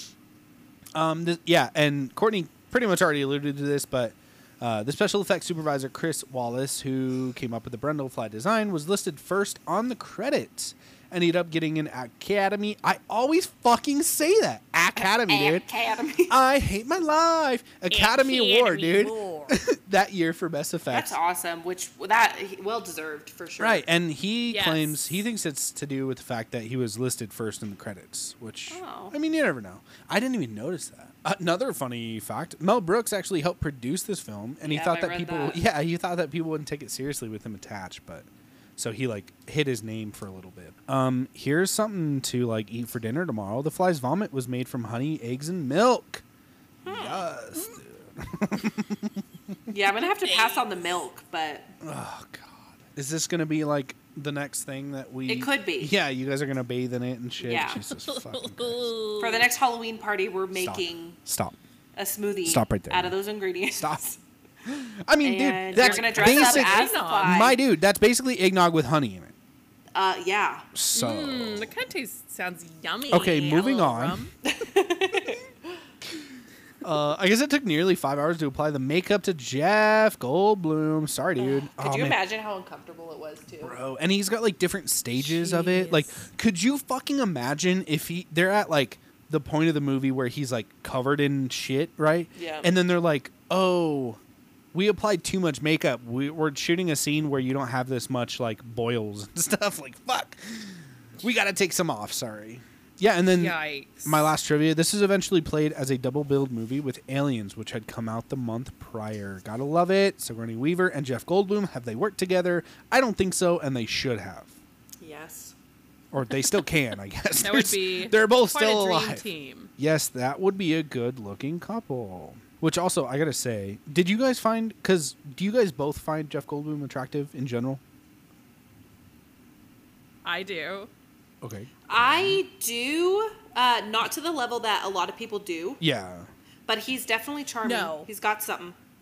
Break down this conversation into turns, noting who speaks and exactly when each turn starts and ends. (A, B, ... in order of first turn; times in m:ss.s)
0:00.9-0:15.7 A
0:15.0-0:16.4 B
0:16.3-0:21.2 A
0:17.9-0:19.6 C
0:20.9-0:23.8 B
0:23.6-0:46.2 A
0:24.5-0:25.1 C
0:28.7-0:29.1 B
0:34.6-0:35.6 B
0:46.8-0:47.2 B
0:46.8-0:49.2 A
0:49.7-0:51.7 B
0:50.1-0:50.8 C
0:51.8-0:58.9 A
0:55.3-0:55.9 B
0:57.4-0:57.8 B
0:57.9-0:59.5 C
0:59.2-1:01.2 B
1:00.6-1:01.6 A
1:02.0-1:04.2 B
1:02.4-1:03.2 A
1:03.7-1:04.1 A
1:04.6-1:09.3 A
1:05.2-1:07.6 B
1:05.7-1:07.4 C
1:09.9-1:10.7 B
1:10.7-1:11.7 A
1:10.9-1:14.3 C
1:13.1-1:14.2 A
1:14.4-1:15.4 B
1:16.8-1:22.2 A
1:21.4-1:23.8 B
1:23.6-1:34.2 A
1:25.2-1:26.2 C
1:32.3-1:32.7 B
1:34.7-1:54.5 A
1:43.3-1:44.2 C
1:55.0-1:55.5 B
1:56.1-1:59.2 A
1:57.4-1:59.7 C
1:59.8-2:07.8 A
2:10.2-2:10.9 C
2:11.4-2:12.4 A
2:11.9-2:15.8 B
2:15.8-2:16.3 A
2:16.7-2:18.8 B
2:17.6-2:18.1 C